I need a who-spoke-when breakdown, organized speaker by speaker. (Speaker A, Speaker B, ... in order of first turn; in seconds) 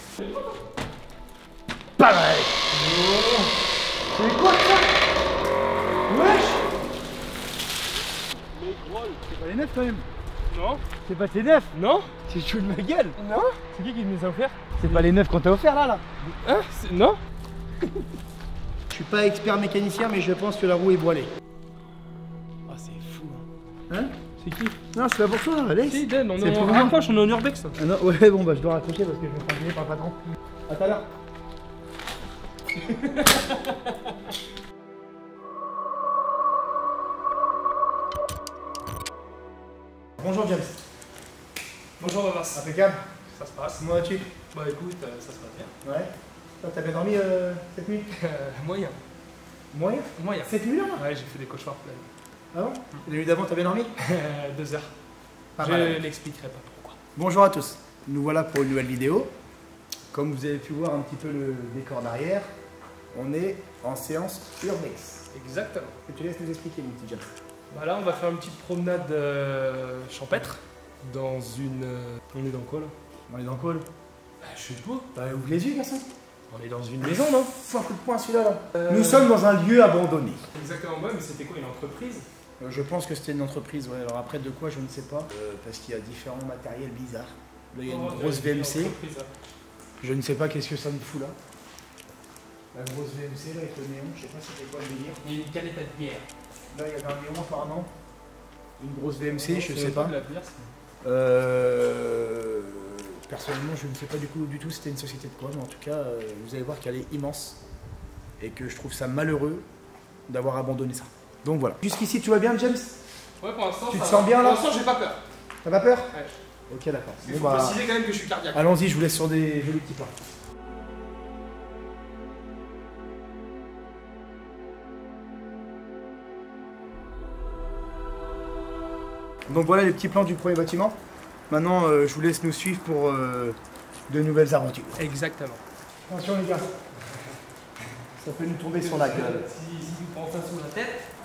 Speaker A: 0.2-0.5, 2.7-3.5, 6.1-6.6, 8.5-9.2, 10.5-10.8, 11.7-12.1, 13.2-15.1, 16.2-17.2, 24.4-24.8, 25.9-27.8, 32.8-33.9, 42.0-42.6, 43.3-43.8, 44.5-45.7, 48.1-49.0, 50.1-52.1, 54.0-54.9, 55.6-57.0, 65.3-66.0, 67.7-72.9, 74.4-75.1, 76.5-77.5, 78.7-79.3, 80.5-82.3, 87.8-89.3, 95.2-96.2, 99.4-100.7, 113.4-115.3, 117.2-118.6, 135.0-135.6, 138.7-141.0
Speaker B: 2.0-2.6, 4.1-4.9, 9.2-10.0, 11.0-11.7, 12.3-13.2, 14.8-16.0, 18.9-21.3, 22.7-24.1, 24.9-26.9, 27.8-30.1, 30.7-31.1, 40.2-40.8, 42.5-43.0, 43.8-44.3, 45.8-48.1, 49.7-51.0, 52.5-53.9, 55.5-56.0, 57.1-59.3, 60.1-62.5, 63.1-65.3, 66.1-67.3, 73.3-73.8, 75.1-76.0, 77.0-80.4, 82.6-88.9, 90.0-91.4, 92.7-95.4, 96.7-97.9, 98.8-100.1, 101.0-107.6, 108.4-109.7, 110.3-113.0, 113.9-114.7, 115.6-116.1, 116.7-117.8, 118.5-120.1, 129.5-131.0, 131.5-133.6, 134.1-135.0, 136.1-136.7, 138.2-139.4